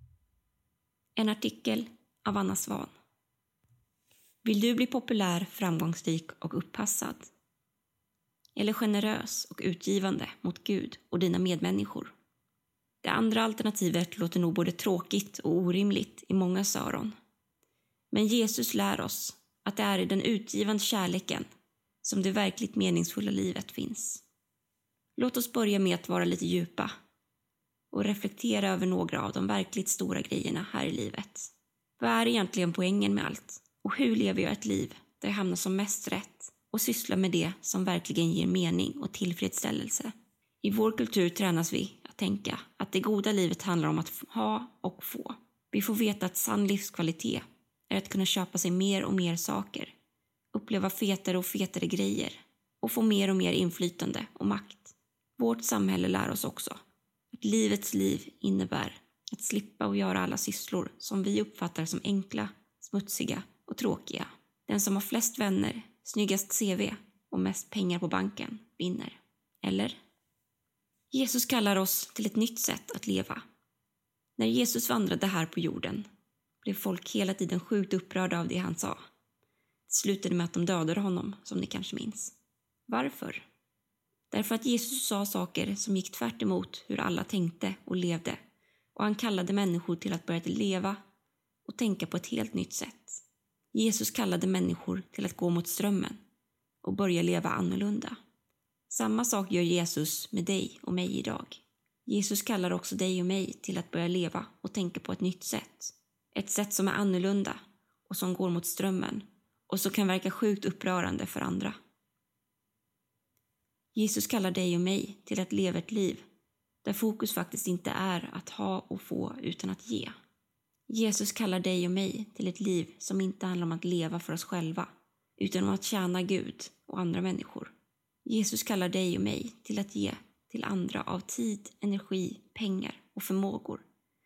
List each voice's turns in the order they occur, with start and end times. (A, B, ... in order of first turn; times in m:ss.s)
0:01.2-0:02.9 A
0:04.4-0:07.3 A
0:08.6-0:12.1 A
0:13.0-0:17.1 A
0:18.1-0:21.5 A
0:22.0-0:24.2 A
0:25.2-0:26.9 A
0:27.9-0:49.9 A
0:50.5-0:56.8 A
0:57.3-1:10.0 A
1:11.1-1:13.4 A
1:14.4-1:16.1 A
1:16.6-1:19.0 A
1:19.9-1:22.4 A
1:22.9-1:23.5 A
1:24.3-1:28.4 A
1:29.0-1:31.0 A
1:31.7-1:33.2 A
1:33.7-1:36.2 A
1:36.8-1:38.2 A
1:38.9-1:51.8 A
1:54.0-1:56.2 A
1:56.8-2:00.2 A
2:00.9-2:07.7 A
2:08.2-2:13.8 A